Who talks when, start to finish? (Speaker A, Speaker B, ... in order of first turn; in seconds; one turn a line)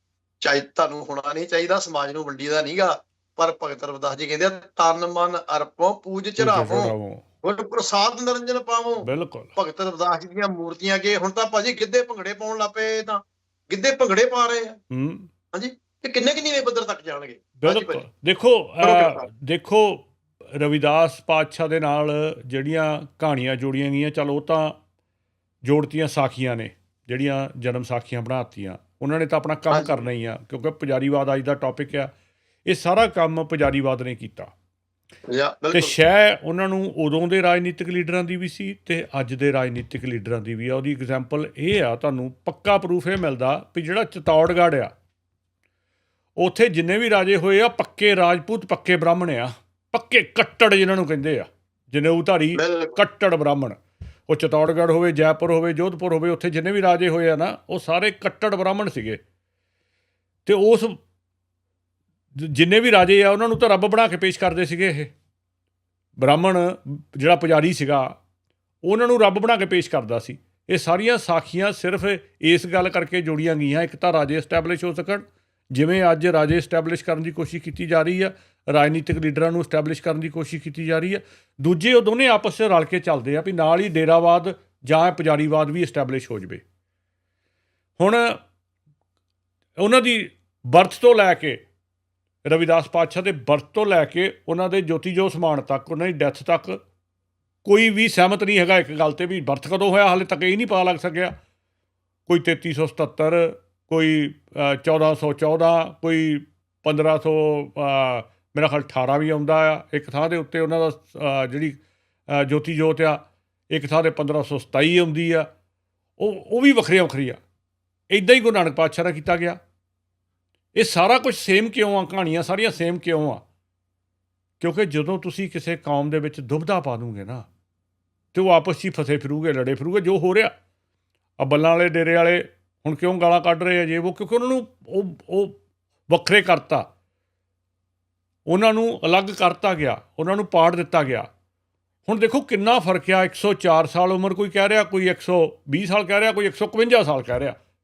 Speaker A: 0.4-6.9
Speaker B: 6.4-7.2
Speaker A: 7.4-14.8
Speaker B: 9.0-9.5
Speaker B: 14.9-15.3
Speaker A: 15.5-18.0
Speaker B: 17.6-24.8
Speaker A: 18.8-19.2
Speaker B: 25.6-32.1
Speaker A: 29.7-30.1
Speaker B: 32.6-34.5
Speaker A: 35.3-36.0
Speaker B: 35.7-44.9
Speaker B: 46.4-59.2
Speaker A: 52.5-53.0
Speaker B: 60.5-61.0
Speaker B: 62.3-65.1
Speaker B: 66.2-68.2
Speaker B: 68.8-86.6
Speaker B: 88.0-88.4
Speaker B: 89.8-91.6
Speaker B: 92.5-96.8
Speaker B: 97.7-101.3
Speaker B: 102.3-115.5
Speaker B: 116.2-117.4
Speaker B: 118.1-119.6
Speaker B: 120.8-123.4
Speaker B: 124.6-127.5
Speaker B: 128.3-130.5
Speaker B: 131.4-135.6
Speaker B: 136.1-136.9
Speaker B: 138.5-141.3
Speaker B: 142.1-147.6